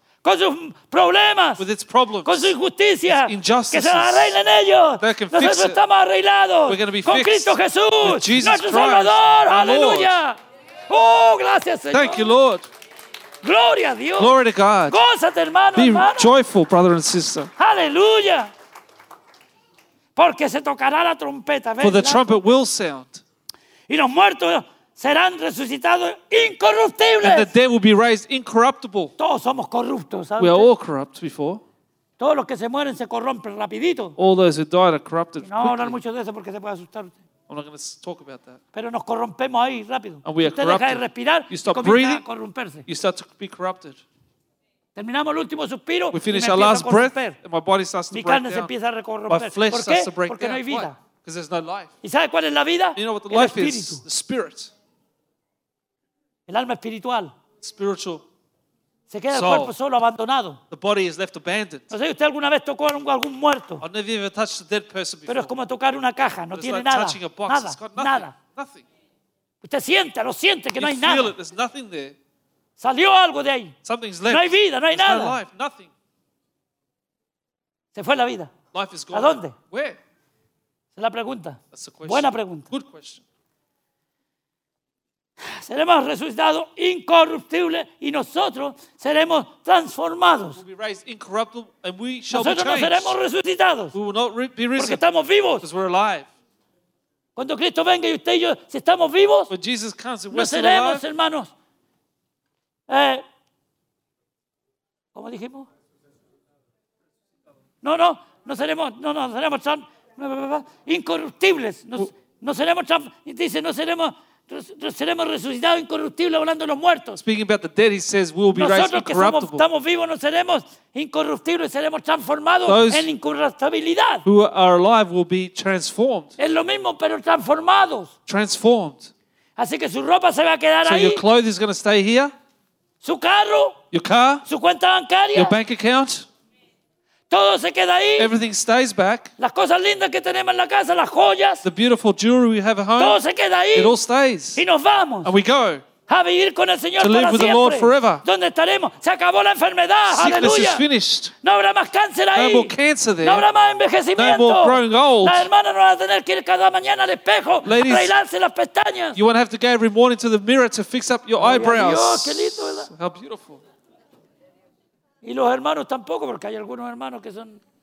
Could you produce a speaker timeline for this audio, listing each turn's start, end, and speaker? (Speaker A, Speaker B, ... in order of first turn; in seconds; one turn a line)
Speaker A: 0.2-1.6
Speaker B: 1.6-2.5
Speaker A: 2.2-10.4
Speaker B: 3.1-4.4
Speaker B: 5.0-5.8
Speaker B: 6.7-10.2
Speaker A: 10.9-12.3
Speaker B: 11.9-12.7
Speaker A: 13.4-16.3
Speaker B: 14.2-15.0
Speaker B: 15.8-17.5
Speaker A: 17.6-18.5
Speaker A: 20.2-22.3
Speaker B: 21.8-23.2
Speaker A: 23.9-27.5
Speaker B: 27.2-29.1
Speaker A: 29.2-30.7
Speaker B: 30.4-31.6
Speaker A: 32.2-34.2
Speaker B: 34.2-36.0
Speaker A: 35.4-37.2
Speaker B: 37.5-38.6
Speaker A: 38.7-42.9
Speaker B: 40.2-42.2
Speaker B: 42.9-44.0
Speaker A: 45.0-47.4
Speaker B: 46.1-48.7
Speaker A: 48.1-51.0
Speaker B: 49.3-51.9
Speaker A: 52.0-54.0
Speaker B: 53.0-54.7
Speaker A: 56.5-57.3
Speaker B: 57.6-58.2
Speaker A: 59.1-60.6
Speaker B: 59.3-59.8
Speaker B: 60.7-61.9
Speaker A: 61.9-63.8
Speaker B: 63.8-65.6
Speaker A: 65.3-68.4
Speaker B: 66.5-68.9
Speaker A: 69.6-71.3
Speaker B: 70.8-72.2
Speaker A: 72.8-73.8
Speaker B: 73.8-75.9
Speaker A: 74.3-75.4
Speaker A: 77.9-78.5
Speaker B: 78.7-80.0
Speaker A: 79.1-79.6
Speaker A: 81.0-82.7
Speaker B: 81.7-83.2
Speaker A: 85.4-90.6
Speaker B: 90.6-93.2
Speaker A: 92.3-94.0
Speaker B: 93.9-95.0
Speaker A: 94.8-95.7
Speaker B: 95.6-96.3
Speaker A: 97.4-99.5
Speaker B: 99.5-101.0
Speaker A: 100.3-101.5
Speaker A: 102.9-103.2
Speaker A: 105.1-105.7
Speaker A: 107.8-117.2
Speaker B: 117.2-119.7
Speaker A: 118.5-124.2
Speaker B: 122.7-123.1
Speaker B: 124.2-126.4
Speaker A: 126.4-128.1
Speaker B: 128.3-129.1
Speaker A: 129.6-131.2
Speaker B: 130.8-132.3
Speaker A: 133.0-133.8
Speaker B: 133.9-134.4
Speaker A: 134.5-135.6
Speaker B: 135.3-136.3
Speaker A: 137.3-138.3
Speaker B: 138.2-139.3
Speaker A: 139.4-141.7
Speaker B: 141.6-143.2
Speaker A: 143.0-144.0
Speaker B: 143.7-144.6
Speaker A: 144.6-145.3
Speaker B: 145.2-145.8
Speaker A: 146.1-150.8
Speaker B: 147.0-148.2
Speaker B: 150.1-151.3
Speaker A: 151.4-159.2
Speaker B: 152.3-153.5
Speaker B: 154.2-155.5
Speaker B: 157.6-158.2
Speaker B: 159.2-163.6
Speaker A: 161.4-162.9
Speaker A: 165.2-167.6